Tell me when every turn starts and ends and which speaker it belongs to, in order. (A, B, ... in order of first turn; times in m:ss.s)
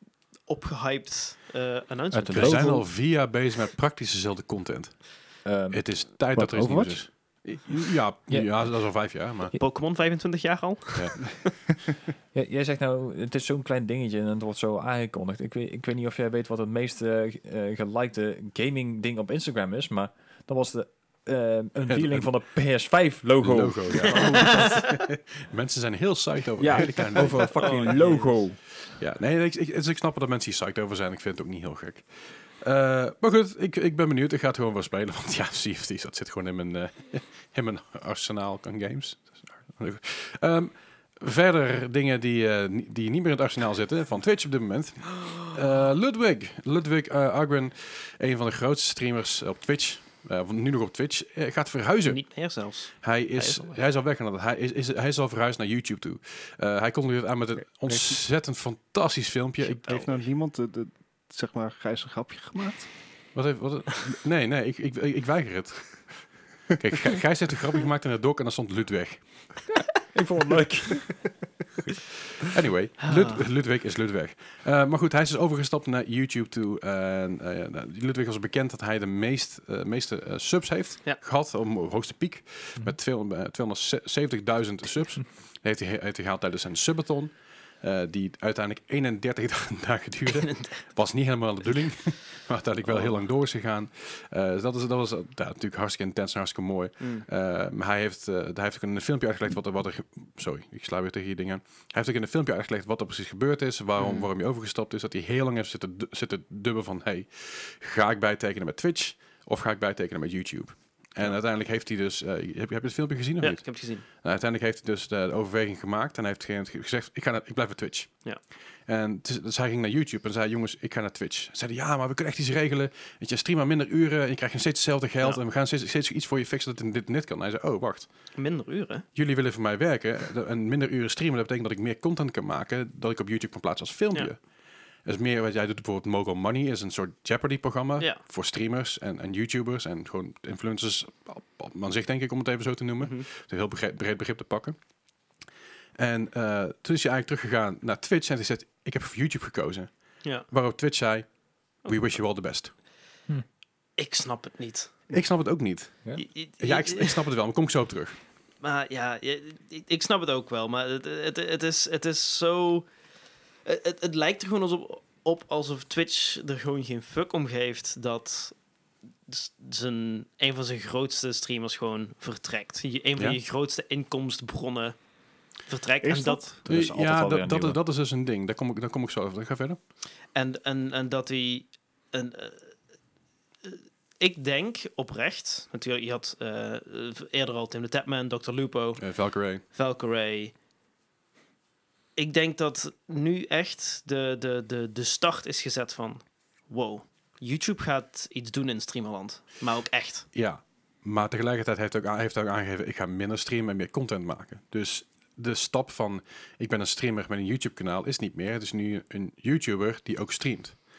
0:00.5-0:02.7 A
0:02.1-0:02.9 B
0:02.3-0:05.1 C
0:05.4-0:05.8 B
0:05.7-0:09.5 C
0:06.4-0:07.0 D
0:09.5-0:11.5 A
0:11.0-0:11.2 C
0:12.3-0:24.2 B
0:21.9-0:22.3 C
0:23.4-0:28.0 C
0:24.1-0:24.8 A
0:26.6-0:28.6 B
0:27.5-0:28.3 A
0:28.9-0:32.0 C
0:32.6-0:52.2 C
0:52.1-0:53.8 A
0:53.0-1:00.0 C
0:57.9-0:58.1 D
0:59.8-1:00.2 A
0:59.9-1:02.9 D
1:03.4-1:06.0 C
1:06.7-1:09.2 C
1:10.0-1:11.2 B
1:12.4-1:58.2 C
1:13.1-1:13.4 A
1:30.3-1:30.8 A
1:37.0-1:37.3 A
1:44.0-1:44.3 A
1:53.4-1:54.0 A
1:58.9-2:08.1 C
2:08.4-2:09.0 A
2:09.2-2:14.4 C
2:15.0-2:24.8 C
2:23.0-2:23.3 A
2:26.0-2:31.3 C
2:31.8-2:32.7 C
2:34.0-2:34.9 A
2:35.1-2:38.2 C
2:36.2-2:37.2 A
2:38.6-2:42.9 A
2:43.6-2:48.6 A
2:49.3-2:55.0 A
2:55.7-2:56.4 A
2:56.0-2:56.6 D
2:56.6-2:57.8 B
2:56.6-2:59.8 C
3:00.3-3:02.7 A
3:03.6-3:09.1 A
3:09.0-3:09.6 C
3:09.7-3:10.5 A
3:12.2-3:20.3 A
3:20.3-3:30.8 C